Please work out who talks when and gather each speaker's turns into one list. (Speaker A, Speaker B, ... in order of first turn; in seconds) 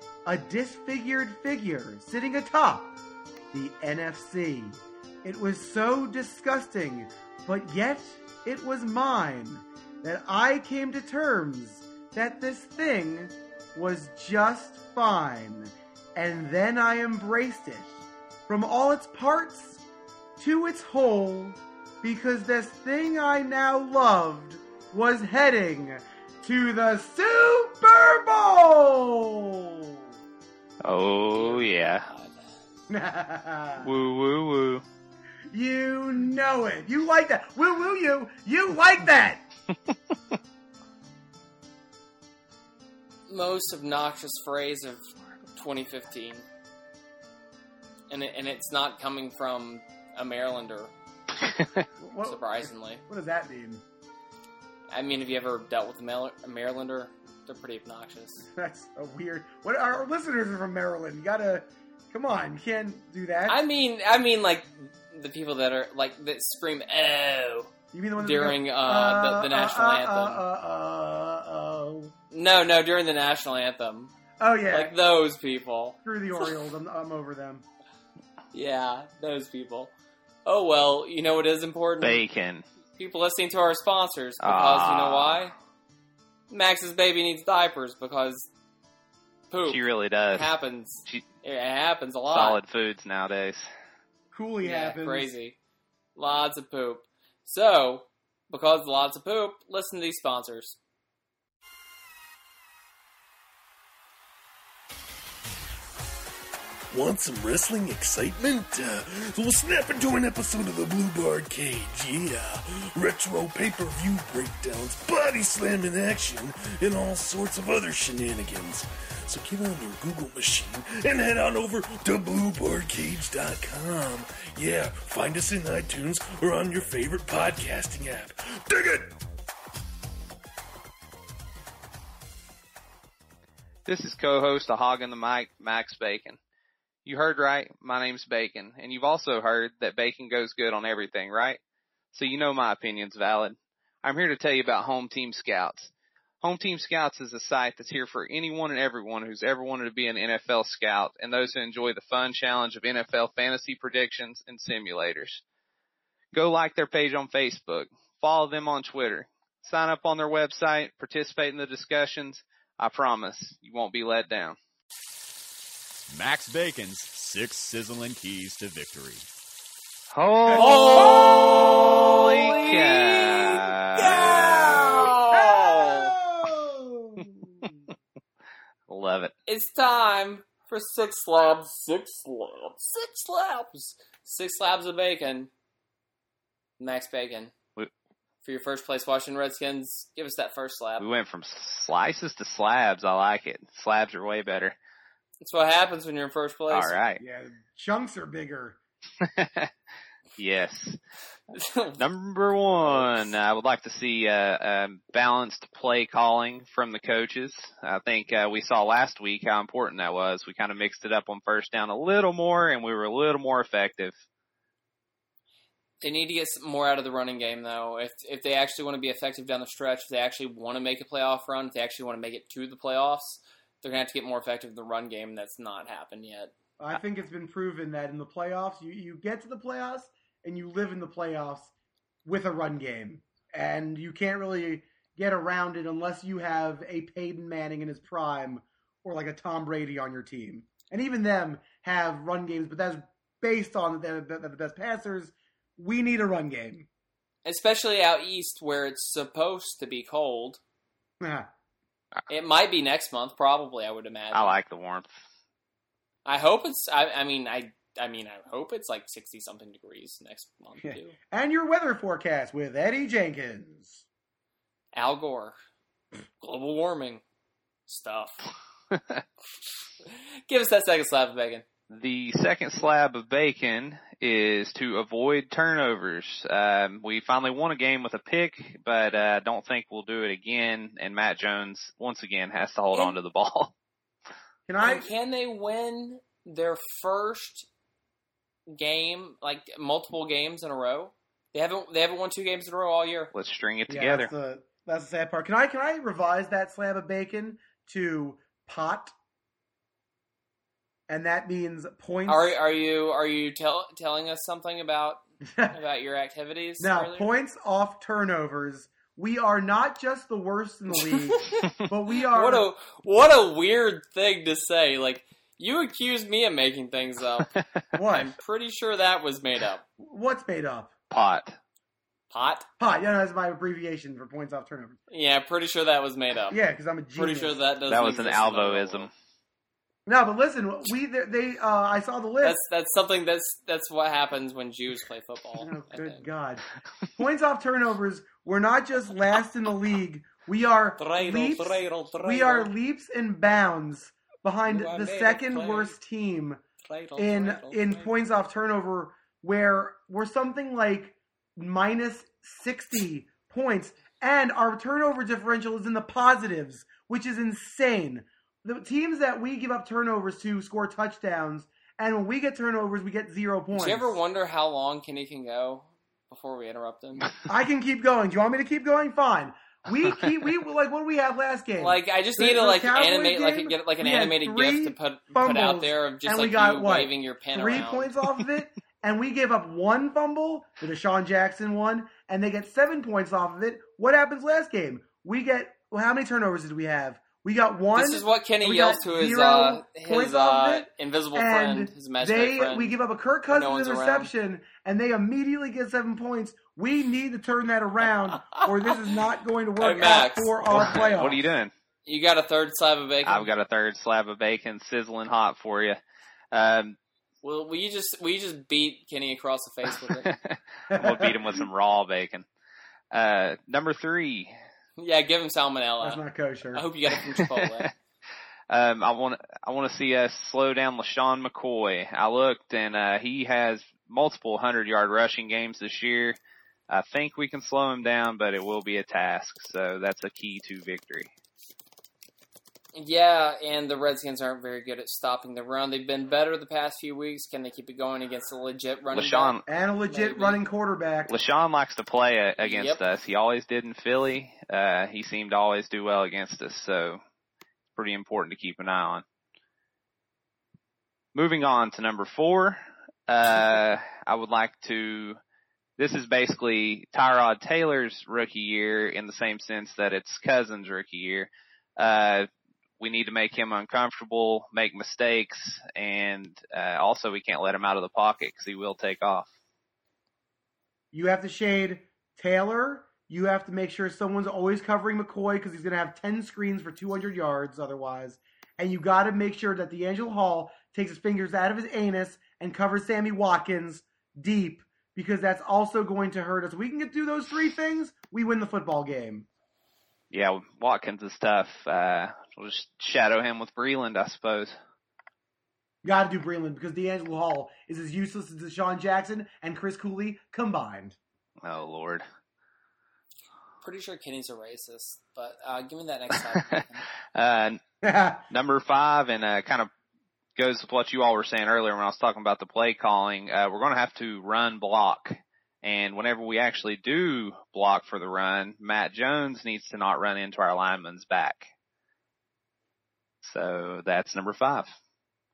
Speaker A: 0.2-2.9, 3.5-19.8, 20.4-30.0, 32.9-33.9, 35.5-39.4, 52.0-53.8, 58.5-63.6, 67.9-72.1, 74.4-74.9, 76.0-77.6, 94.3-95.3, 170.5-171.9, 174.0-177.7, 197.2-198.8, 226.8-231.7, 232.2-246.9, 251.2-251.5, 260.8-264.0, 284.7-285.1, 293.9-299.1, 301.1-302.5, 305.5-305.8, 306.8-312.7, 317.9-318.3, 320.0-320.9, 322.8-325.0, 326.5-327.5, 330.1-332.6, 335.6-336.6, 337.1-346.6, 347.1-364.2, 367.5-401.4, 410.9-411.4, 416.0-416.8, 439.6-441.4, 471.1-489.4, 496.0-501.2, 508.0-508.4
Speaker B: 30.8-32.0, 33.8-34.8, 82.0-82.6, 84.4-85.4, 89.6-90.5, 92.3-93.7, 133.8-136.4, 137.1-141.6, 142.1-145.9, 146.4-155.4, 156.3-164.6, 170.1-174.6, 178.9-179.3, 191.0-194.7, 196.7-197.2, 199.2-199.7, 200.4-201.0, 202.0-214.1, 254.3-255.1, 268.9-269.2, 271.9-283.7, 293.3-294.3, 321.1-321.6, 327.9-329.1, 400.7-401.7, 403.2-406.0, 406.5-407.0, 410.2-412.4, 413.1-414.5, 417.4-417.8, 418.7-426.4, 426.9-431.3, 439.1-439.6, 441.3-447.2, 447.9-449.2, 451.3-455.4, 456.0-462.5, 463.0-469.5, 490.3-494.7, 501.6-502.2, 506.5-506.8, 507.3-507.8, 508.5-509.9, 510.6-521.7, 523.4-524.9
Speaker C: 31.3-32.5, 43.3-45.0, 45.5-46.4, 48.1-50.9, 52.2-53.0, 54.9-58.5, 63.5-70.4, 72.3-74.1, 74.7-76.5, 78.5-79.9, 80.5-82.2, 83.0-85.5, 86.5-88.5, 89.5-92.6, 94.6-95.6, 96.2-100.8, 170.5-176.1, 179.5-185.5, 186.8-187.5, 188.4-191.1, 195.4-196.9, 201.5-202.0, 202.8-203.3, 216.0-226.5, 247.4-250.6, 252.3-254.6, 256.2-261.1, 264.9-265.5, 266.4-267.2, 267.9-268.5, 270.1-271.6, 284.8-287.7, 288.7-293.3, 302.3-307.3, 311.0-311.7, 312.3-317.5, 318.1-319.8, 322.3-322.7, 325.1-326.6, 327.1-329.1, 332.4-336.2, 341.0-342.7, 344.7-345.9, 346.8-348.1, 363.7-367.3, 371.8-378.1, 387.9-392.9, 393.5-394.3, 399.8-401.0, 402.1-403.5, 407.4-410.3, 415.0-416.2, 416.7-417.9, 432.9-440.6, 442.6-443.0, 503.8-507.0
Speaker D: 106.9-129.1
Speaker E: 166.1-169.2